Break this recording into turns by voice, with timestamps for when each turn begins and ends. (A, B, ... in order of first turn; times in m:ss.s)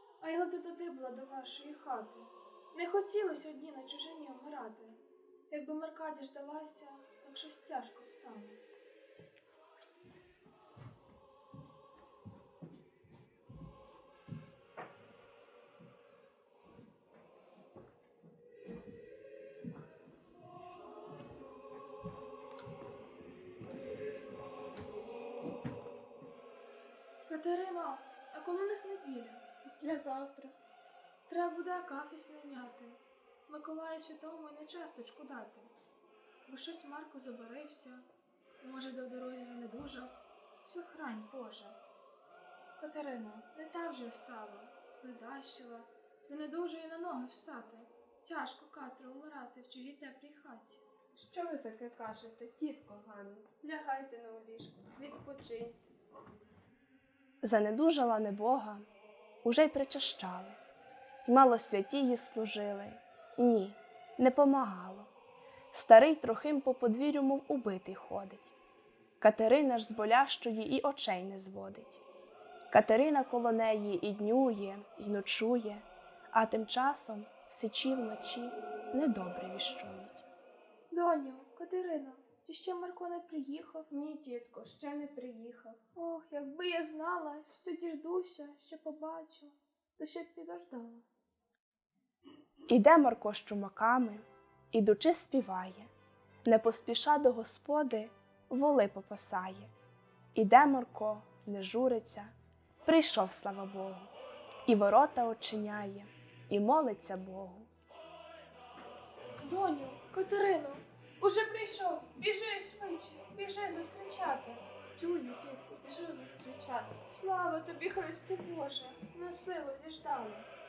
0:00.2-0:08.6 A
0:27.3-0:29.6 A
0:29.6-0:30.5 B
0:31.3-0:35.7 A
0:36.5-0:38.0 A
0:38.6-0:41.8 A
0:42.8-0:50.8 A
0:51.1-0:55.8 B
0:57.4-0:58.9 C
0:59.4-1:00.6 C
1:01.3-1:05.1 C
1:05.7-1:08.5 C
1:09.2-1:12.0 C
1:12.7-1:20.2 C
1:20.9-1:23.9 A
1:23.9-1:25.8 B
1:26.0-1:31.0 A
1:32.7-1:35.9 C
1:36.4-1:39.7 C
1:40.4-1:42.3 C
1:42.8-1:44.1 C
1:44.7-1:47.7 C
1:49.4-1:54.6 A
1:55.0-1:57.0 B
1:57.1-2:00.5 A